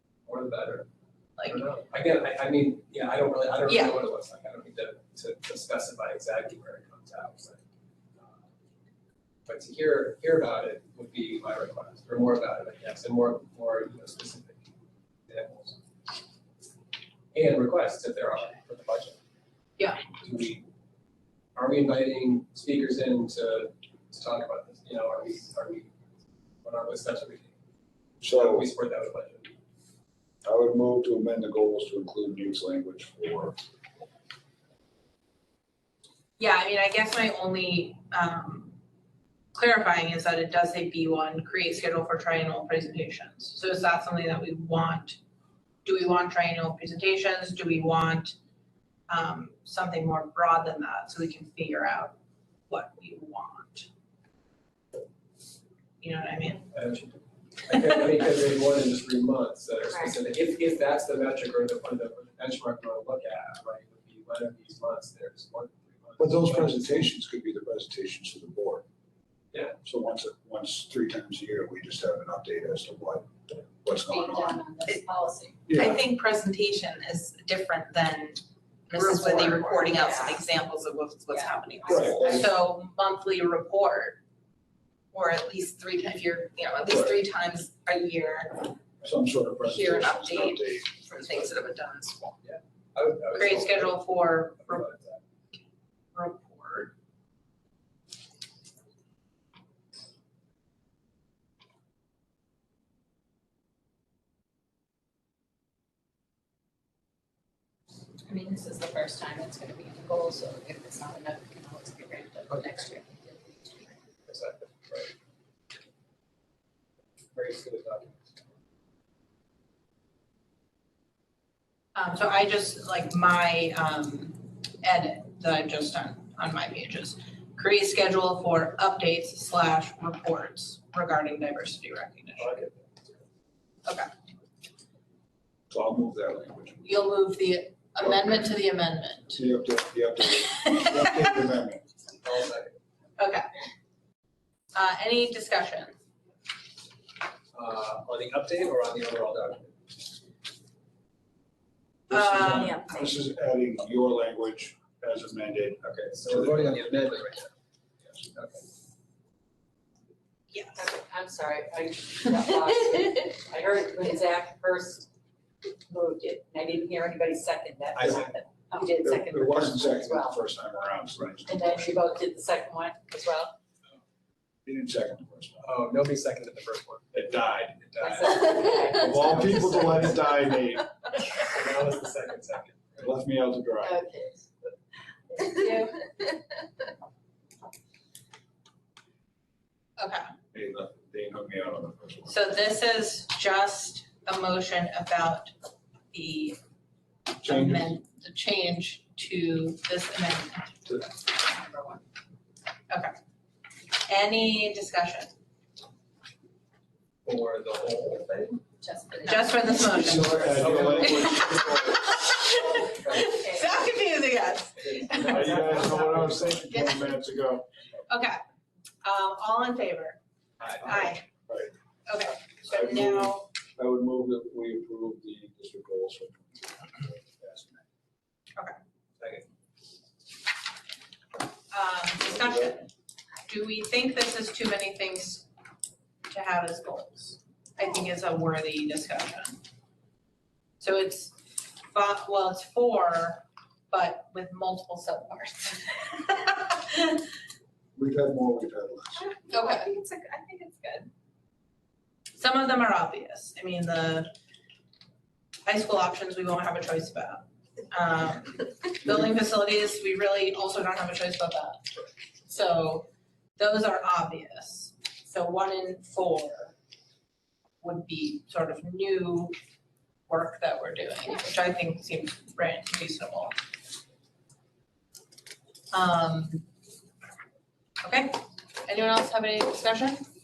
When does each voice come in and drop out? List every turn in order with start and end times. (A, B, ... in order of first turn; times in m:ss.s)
0:00.2-0:00.9 A
0:01.4-0:01.6 B
0:01.5-0:07.6 A
0:03.7-0:04.0 B
0:09.4-0:14.7 A
0:15.3-0:15.8 A
0:17.3-0:19.2 A
0:19.8-0:20.0 B
0:20.2-0:20.6 A
0:21.6-0:25.9 A
0:26.6-0:27.5 A
0:28.2-0:28.7 C
0:28.2-0:29.5 A
0:30.4-0:33.6 C
0:36.4-0:38.8 B
0:39.5-0:45.2 B
0:45.8-0:48.4 B
0:49.1-0:52.2 B
0:52.7-0:53.9 B
0:56.0-0:56.7 B
0:56.7-1:07.0 A
1:06.2-1:08.8 C
1:09.5-1:09.8 A
1:09.8-1:14.6 C
1:14.0-1:15.7 D
1:15.7-1:16.0 C
1:15.7-1:22.4 E
1:18.9-1:20.0 B
1:19.9-1:20.4 D
1:21.3-1:22.4 D
1:21.8-1:22.5 C
1:22.2-1:24.2 B
1:25.1-1:28.7 E
1:26.9-1:27.1 C
1:29.0-1:30.9 C
1:29.6-1:32.4 E
1:32.4-1:35.2 A
1:33.3-1:34.9 B
1:36.1-1:36.9 B
1:48.3-1:53.8 D
1:54.2-1:55.1 A
1:57.3-1:58.2 A
2:01.9-2:12.5 B
2:15.7-2:16.9 C
2:16.8-2:19.5 B
2:18.0-2:18.3 C
2:19.3-2:21.8 C
2:20.4-2:21.1 B
2:22.2-2:22.8 A
2:23.2-2:23.6 B
2:24.7-2:25.9 B
2:27.5-2:29.8 A
2:32.1-2:32.8 B
2:32.1-2:37.0 C
2:35.8-2:37.5 A
2:38.2-2:38.6 A
2:40.5-2:40.8 B
2:40.7-2:45.1 D
2:45.9-2:50.4 D
2:48.0-2:48.4 A
2:49.0-2:51.9 C
2:51.5-2:53.5 D
2:54.6-2:55.8 C
2:55.6-3:00.2 A
2:57.1-2:57.8 C
2:58.0-3:00.2 D
2:58.9-3:00.9 C
3:01.3-3:03.1 A
3:03.0-3:04.0 C
3:03.8-3:04.5 D
3:05.4-3:06.0 D
3:10.0-3:10.3 B
3:10.5-3:12.4 C
3:12.3-3:15.5 B
3:16.1-3:16.6 B
3:17.3-3:21.1 B
3:17.4-3:17.9 C
3:23.9-3:25.3 B
3:27.2-3:28.6 A
3:28.8-3:30.0 D
3:29.2-3:37.2 B
3:29.8-3:32.1 C
3:30.2-3:31.6 A
3:32.7-3:33.6 A
3:33.2-3:33.8 D
3:34.8-3:36.0 A
3:35.2-3:37.7 C
3:35.2-3:36.5 D
3:38.1-3:38.4 B
3:39.0-3:40.2 B
3:40.6-3:41.1 A
3:40.8-3:41.2 B
3:42.0-3:43.5 B
3:42.6-3:47.8 C
3:51.7-3:52.9 B
3:52.2-3:52.8 C
3:53.5-3:55.5 B
3:56.3-3:59.6 B
4:00.8-4:07.2 B
4:07.9-4:09.3 C
4:09.2-4:11.1 E
4:09.5-4:09.9 B
4:12.4-4:14.3 B
4:15.6-4:21.8 B
4:22.4-4:26.8 B
4:27.8-4:29.5 B
4:30.3-4:33.5 B
4:35.9-4:36.6 B
4:38.0-4:40.2 B